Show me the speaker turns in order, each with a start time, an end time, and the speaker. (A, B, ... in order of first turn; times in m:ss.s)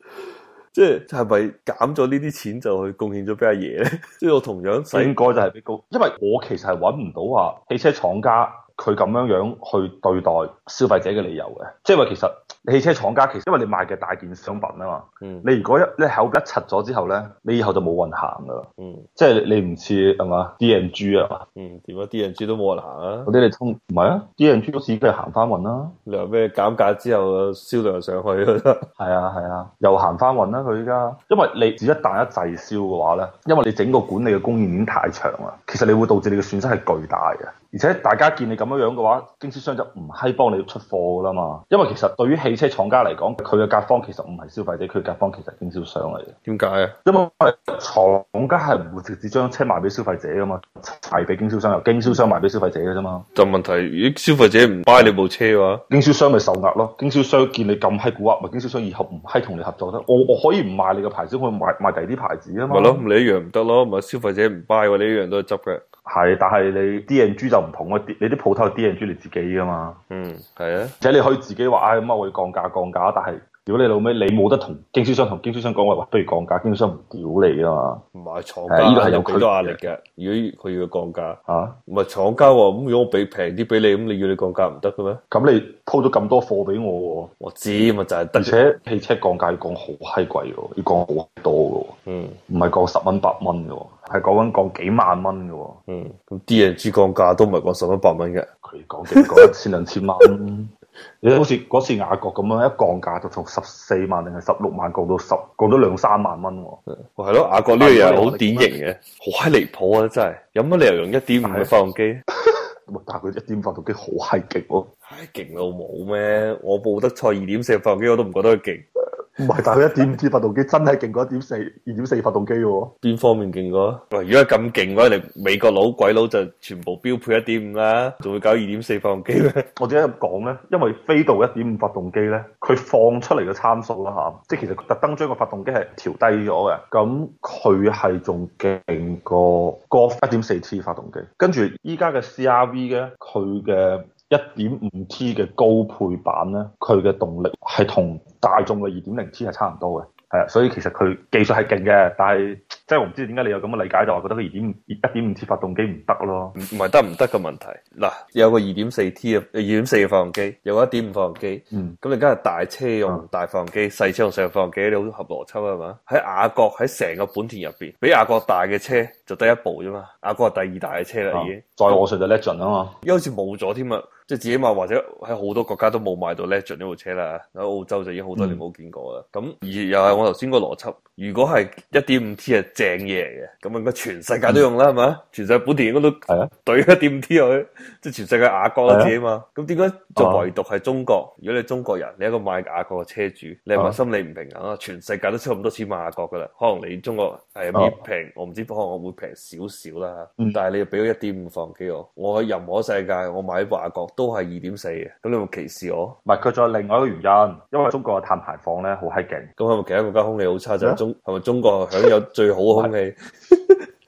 0:00.7-0:05.1 A
0:04.9-0:21.4 B
0:15.2-0:15.4 A
0:18.8-0:19.1 A
0:21.6-0:23.3 A
0:23.3-0:26.0 B
0:26.1-0:28.9 A
0:29.0-0:46.3 B
0:46.4-0:47.0 A
0:47.0-0:53.2 B
0:53.3-0:55.8 A
0:55.9-1:03.0 B
1:02.7-1:05.8 A
1:06.0-1:10.0 B
1:10.1-1:10.9 A
1:11.0-1:18.0 B
1:18.1-1:25.2 A
1:18.7-1:19.8 B
1:21.5-1:21.8 B
1:25.3-1:27.3 B
1:27.4-1:28.6 A
1:28.4-1:31.9 B
1:32.1-1:32.4 A
1:32.5-1:35.8 B
1:35.9-1:38.5 A
1:38.6-1:46.8 B
1:39.1-1:39.5 A
1:47.1-1:52.2 A
1:47.8-1:48.8 B
1:51.4-1:51.7 B
1:52.9-1:54.9 B
1:55.0-1:58.8 A
1:59.4-2:02.9 B
2:03.0-2:09.6 A
2:09.8-2:36.6 B
2:36.6-2:52.0 A
2:51.3-2:53.0 B
2:53.0-3:26.2 A
2:58.4-2:58.6 B
3:08.9-3:09.1 B
3:10.2-3:10.5 B
3:26.2-3:29.5 B
3:29.6-3:33.8 A